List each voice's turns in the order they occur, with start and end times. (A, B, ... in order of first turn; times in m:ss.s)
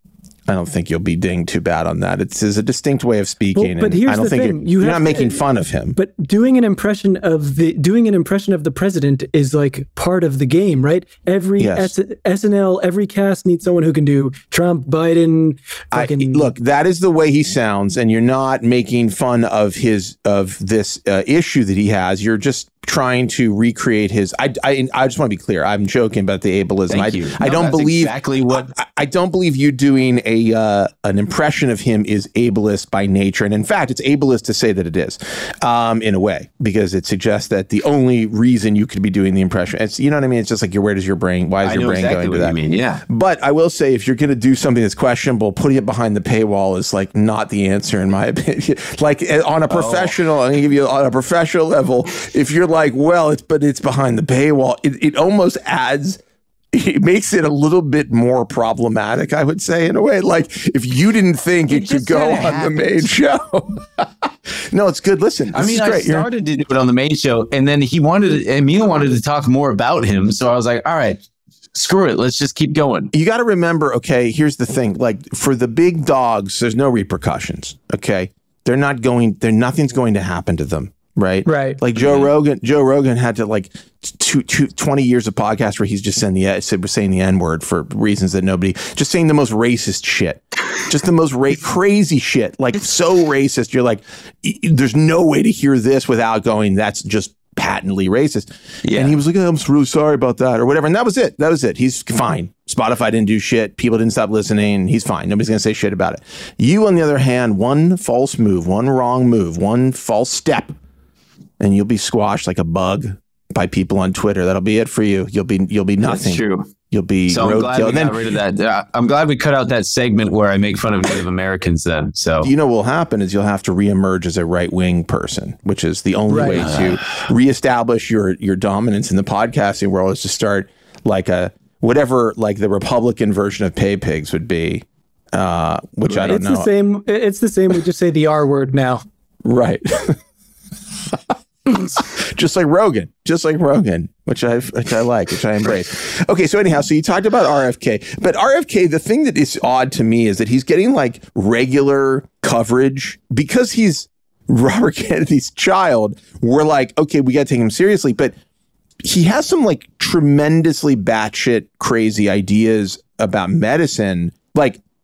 0:00.5-0:06.0 A
0:03.5-0:05.4 B
0:05.9-0:16.5 B
0:11.6-0:11.9 A
0:15.9-0:42.6 A
0:26.9-0:28.7 C
0:41.6-0:43.0 C
0:43.1-0:56.2 A
0:49.7-0:50.1 C
0:56.7-1:06.3 A
1:01.7-1:03.1 C
1:05.5-1:11.2 C
1:11.7-1:13.1 C
1:13.1-1:50.7 A
1:21.4-1:21.8 B
1:21.9-1:22.3 C
1:38.8-1:39.2 C
1:51.6-1:58.4 A
1:56.0-1:56.7 C
1:57.3-2:02.5 C
2:02.4-2:16.7 A
2:06.3-2:06.7 B
2:06.4-2:07.2 C
2:16.1-2:19.0 B
2:19.4-2:20.2 A
2:21.7-2:38.3 A
2:39.0-2:44.8 A